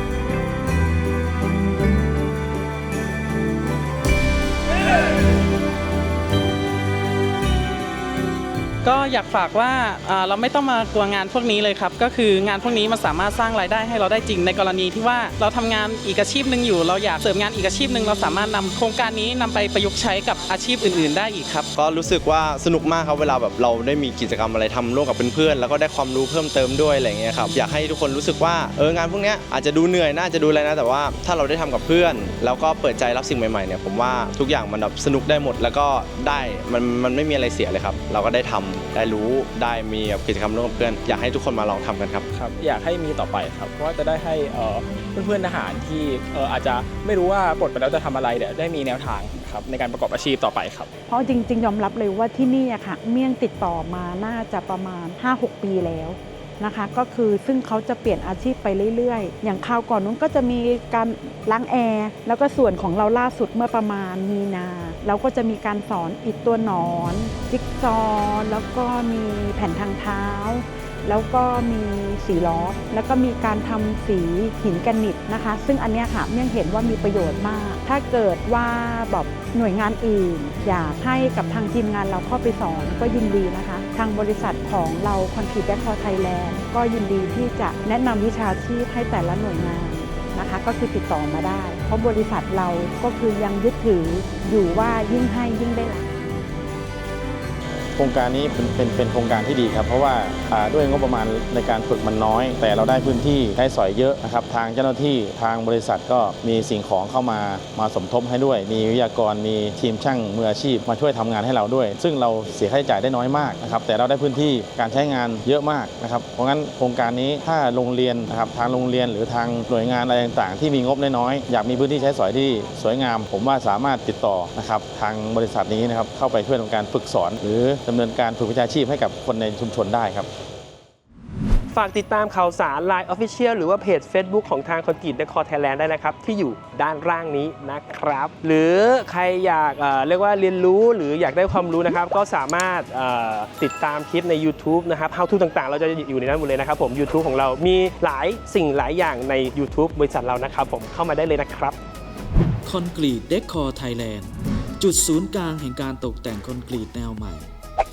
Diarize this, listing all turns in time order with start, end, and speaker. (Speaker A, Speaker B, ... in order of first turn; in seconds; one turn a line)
Speaker A: 8.8-21.7
Speaker B: 21.7-42.3
Speaker C: 42.3-50.9
Speaker D: 51.1-96.3
Speaker E: 98.0-130.3
Speaker F: 131.7-151.8
Speaker G: 152.7-157.5